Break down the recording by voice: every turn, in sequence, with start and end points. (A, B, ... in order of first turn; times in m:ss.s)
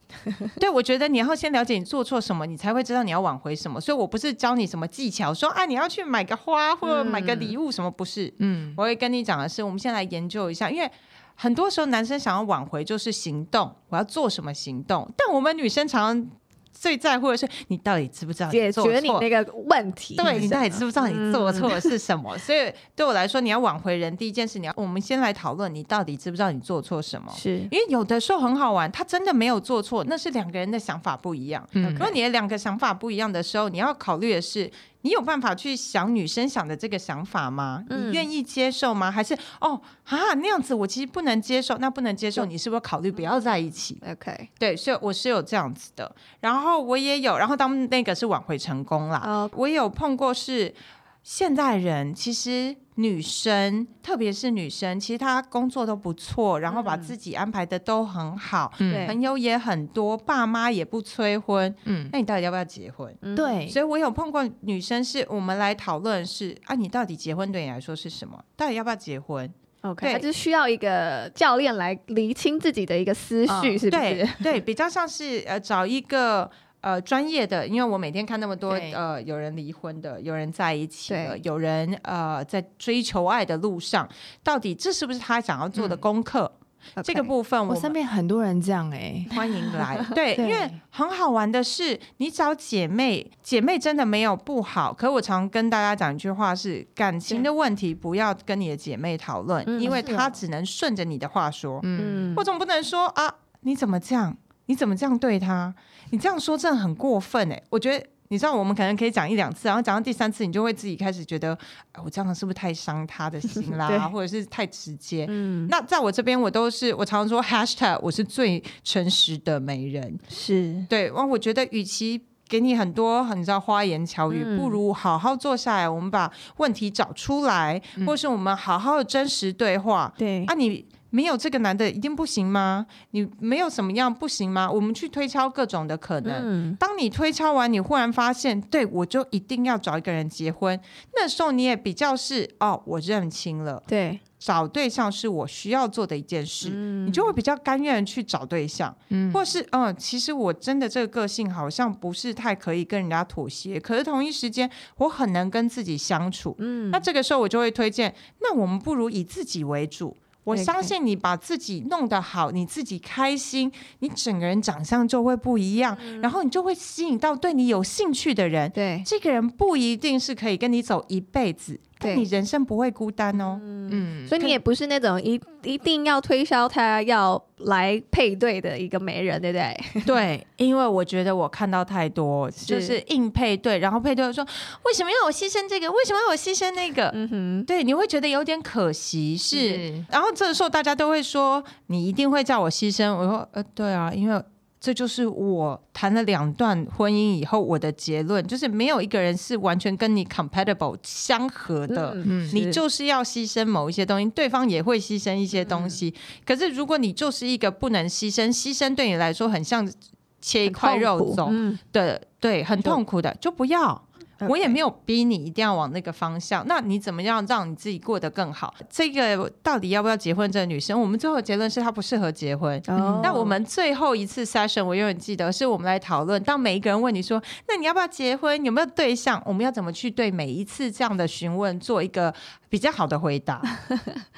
0:00.6-0:19.3 A
0:06.8-0:07.6 B
0:08.4-0:08.8 C
0:18.5-0:21.9 B
0:20.2-0:44.0 A
0:27.3-0:27.7 B
0:31.8-0:32.1 C
0:31.8-0:32.2 B
0:37.9-0:38.3 B
0:44.0-0:44.5 B
0:44.6-1:10.3 A
0:49.2-0:49.5 B
0:56.7-0:57.1 B
0:58.8-0:59.2 C
0:58.9-0:59.2 B
1:01.9-1:02.1 C
1:03.2-1:03.6 B
1:03.4-1:03.8 C
1:09.8-1:14.4 B
1:13.5-1:13.8 C
1:13.9-1:28.0 A
1:18.7-1:19.0 C
1:21.1-1:21.4 B
1:25.8-1:26.0 C
1:27.0-1:27.3 B
1:27.7-1:29.3 C
1:29.3-2:00.2 A
1:29.4-1:30.1 B
1:30.4-1:30.8 C
1:39.7-1:40.4 B
1:41.8-1:42.4 C
1:42.0-1:42.4 B
1:53.6-1:54.1 B
1:55.3-1:55.7 B
2:00.3-2:00.9 B
2:00.9-2:23.9 A
2:04.3-2:04.8 B
2:10.2-2:10.5 B
2:16.2-2:16.8 B
2:23.9-2:24.2 B
2:24.4-2:53.6 A
2:26.6-2:27.3 B
2:29.1-2:29.4 C
2:36.6-2:37.1 B
2:40.5-2:40.9 B
2:46.0-2:46.4 B
2:48.8-2:49.1 B
2:52.0-2:52.3 B
2:53.4-3:00.1 B
2:53.9-2:54.4 C
3:00.0-3:07.2 A
3:02.6-3:03.0 B
3:07.1-3:07.7 B
3:07.7-3:53.7 A
3:09.5-3:10.1 C
3:21.9-3:22.8 B
3:22.2-3:22.6 C
3:25.5-3:26.0 B
3:30.6-3:31.8 B
3:34.4-3:34.8 B
3:42.9-3:43.6 B
3:43.0-3:43.4 C
3:53.9-3:54.2 B